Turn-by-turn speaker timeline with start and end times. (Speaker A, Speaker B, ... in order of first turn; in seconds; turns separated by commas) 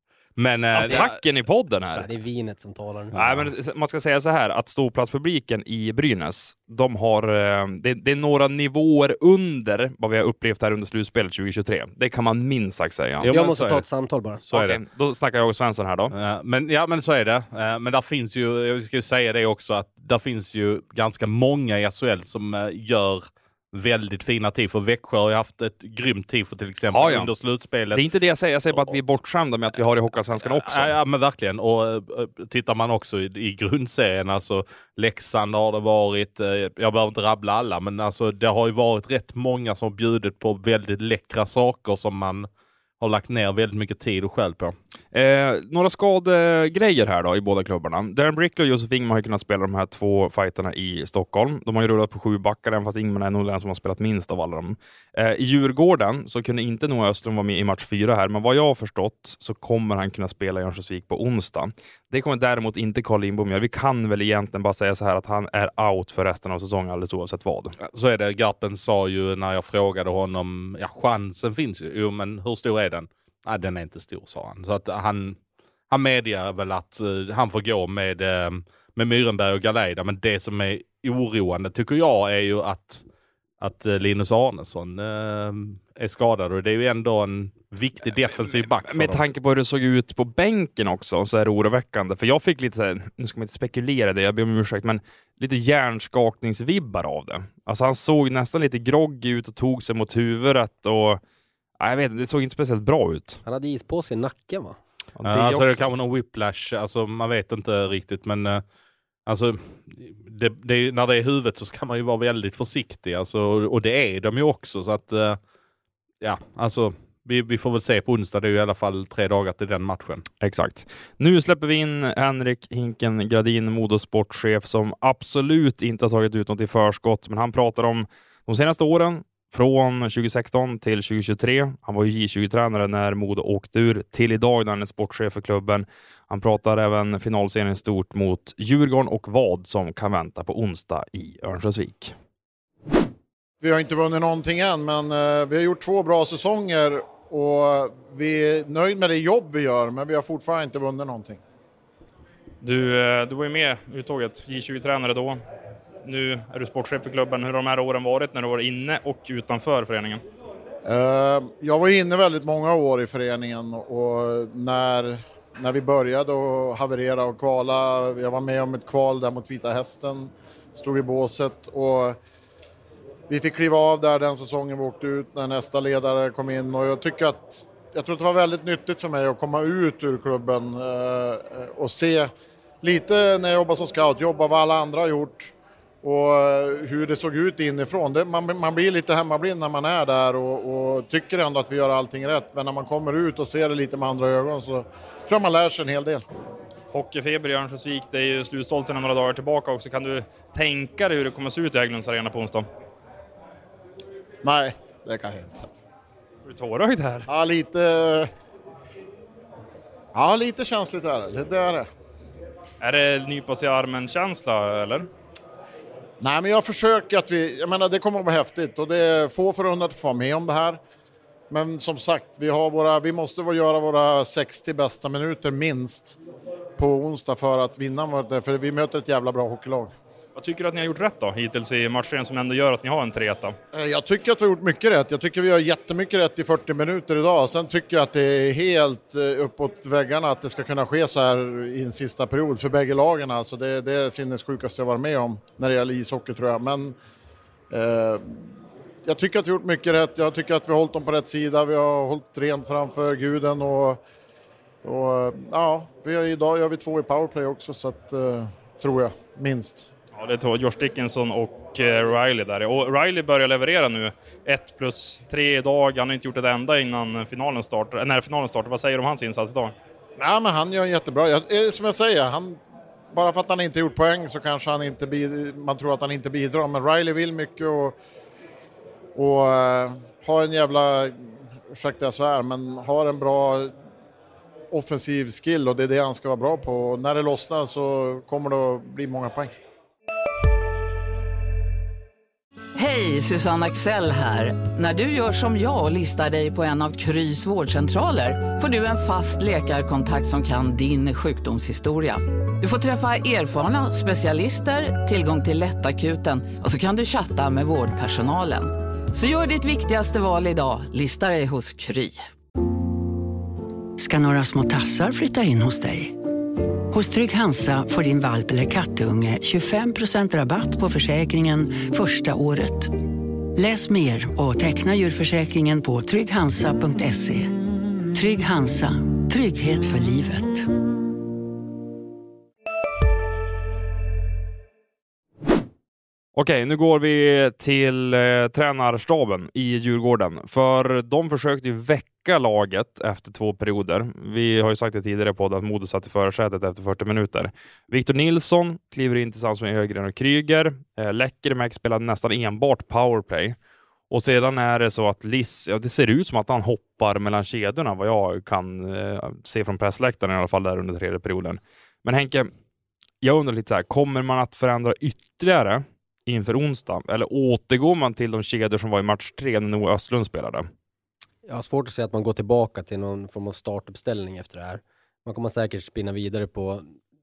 Speaker A: 0.4-1.1, Speaker B: 0.7-2.1, Speaker C: 1.9-3.2, Speaker B: 3.1-13.4, Speaker A: 13.2-13.8, Speaker C: 13.3-14.4, Speaker A: 14.5-14.8, Speaker B: 14.5-16.1, Speaker A: 16.1-28.0, Speaker B: 26.9-27.3, Speaker B: 27.9-30.9, Speaker A: 30.4-42.5, Speaker A: 43.0-44.8, Speaker B: 45.1-67.8, Speaker A: 67.8-75.4, Speaker A: 75.9-83.0, Speaker A: 83.6-89.2, Speaker B: 88.0-101.2, Speaker B: 101.8-103.4, Speaker C: 103.5-104.8, Speaker B: 105.2-105.8, Speaker A: 105.2-108.6, Speaker A: 109.3-115.4, Speaker A: 116.2-120.2, Speaker B: 120.4-142.1, Speaker D: 143.6-151.4, Speaker B: 152.6-155.4, Speaker B: 156.0-160.2, Speaker D: 160.9-172.2, Speaker D: 173.3-182.3, Speaker D: 182.8-196.2, Speaker B: 196.9-202.7, Speaker D: 204.4-205.7, Speaker B: 206.5-207.3, Speaker D: 207.3-208.3, Speaker D: 210.1-211.9, Speaker B: 212.8-215.1, Speaker D: 216.2-220.8, Speaker D: 221.5-226.2, Speaker D: 226.8-229.9, Speaker B: 230.4-233.6, Speaker D: 233.7-246.9, Speaker D: 247.7-248.4, Speaker D: 249.1-254.0, Speaker D: 254.8-259.9, Speaker B: 260.1-269.7, Speaker D: 270.2-272.6, Speaker D: 273.1-278.0, Speaker D: 279.1-281.1, Speaker D: 281.7-283.7, Speaker D: 284.7-289.6, Speaker E: 292.8-312.2, Speaker F: 314.0-316.1, Speaker F: 316.9-322.9, Speaker F: 323.6-327.5, Speaker F: 328.1-330.7, Speaker B: 336.4-353.6, Speaker B: 354.1-362.5, Speaker B: 363.2-370.7, Speaker C: 371.4-377.0